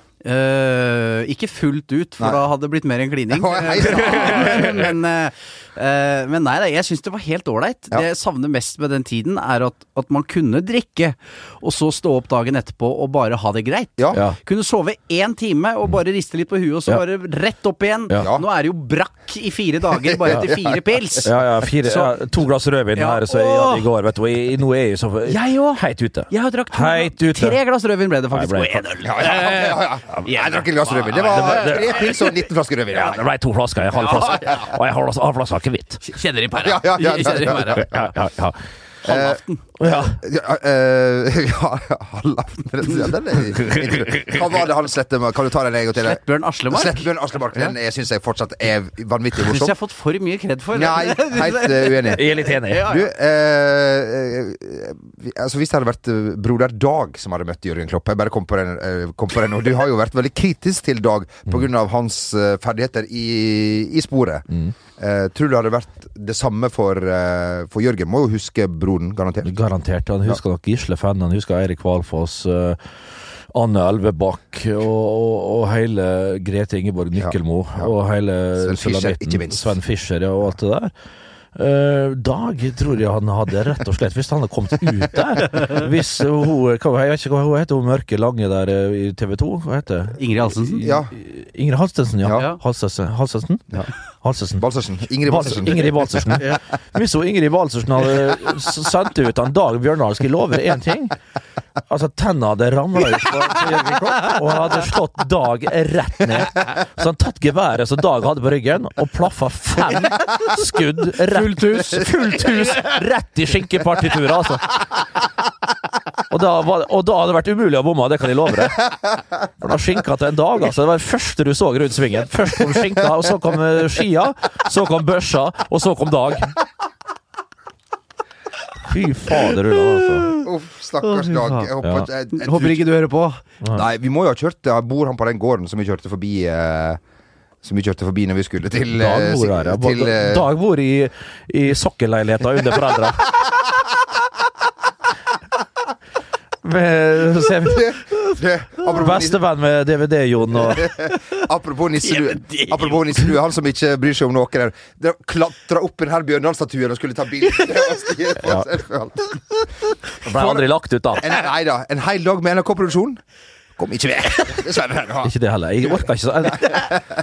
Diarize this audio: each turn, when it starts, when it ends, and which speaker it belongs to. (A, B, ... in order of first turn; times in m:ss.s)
0:00.2-0:22.2 A
0:03.4-0:04.9 B
0:14.1-0:14.4 C
0:20.1-0:20.8 B
0:21.2-0:27.6 C
0:22.9-0:23.9 A
0:25.3-0:32.1 A
0:28.3-0:29.3 C
0:29.0-0:33.2 B
0:31.2-0:31.8 C
0:32.9-0:36.0 C
0:34.0-0:34.6 A
0:36.0-0:37.9 A
0:36.6-0:38.1 B
0:37.2-0:38.6 C
0:39.0-0:39.6 A
0:39.0-0:49.8 B
0:39.8-0:40.2 C
0:46.0-0:47.7 A
0:49.4-0:53.0 A
0:50.7-0:52.3 B
0:52.2-0:52.9 C
0:52.9-1:09.5 B
1:09.4-1:12.9 C
1:13.5-1:20.9 C
1:17.2-1:17.9 B
1:18.6-1:19.8 B
1:21.6-1:34.6 C
1:30.2-1:30.8 A
1:30.8-1:31.1 B
1:32.3-1:32.6 A
1:34.6-1:36.1 B
1:35.2-1:41.2 C
1:41.9-1:54.8 C
1:51.3-1:53.0 A
1:56.3-2:06.6 C
2:08.9-2:10.4 C
2:10.4-2:12.8 B
2:11.0-2:11.7 A
2:11.8-2:12.1 C
2:12.3-2:13.4 A
2:13.7-2:17.0 B
2:17.6-2:20.4 B
2:18.9-2:23.4 C
2:26.6-2:30.9 C
2:27.7-2:29.4 B
2:30.7-2:39.4 B
2:32.0-2:33.3 A
2:38.4-2:38.7 C
2:40.2-2:41.3 C
2:40.3-2:40.6 B
2:41.2-2:43.2 B
2:43.8-2:45.3 B
2:45.2-2:47.0 C
2:46.6-2:47.0 B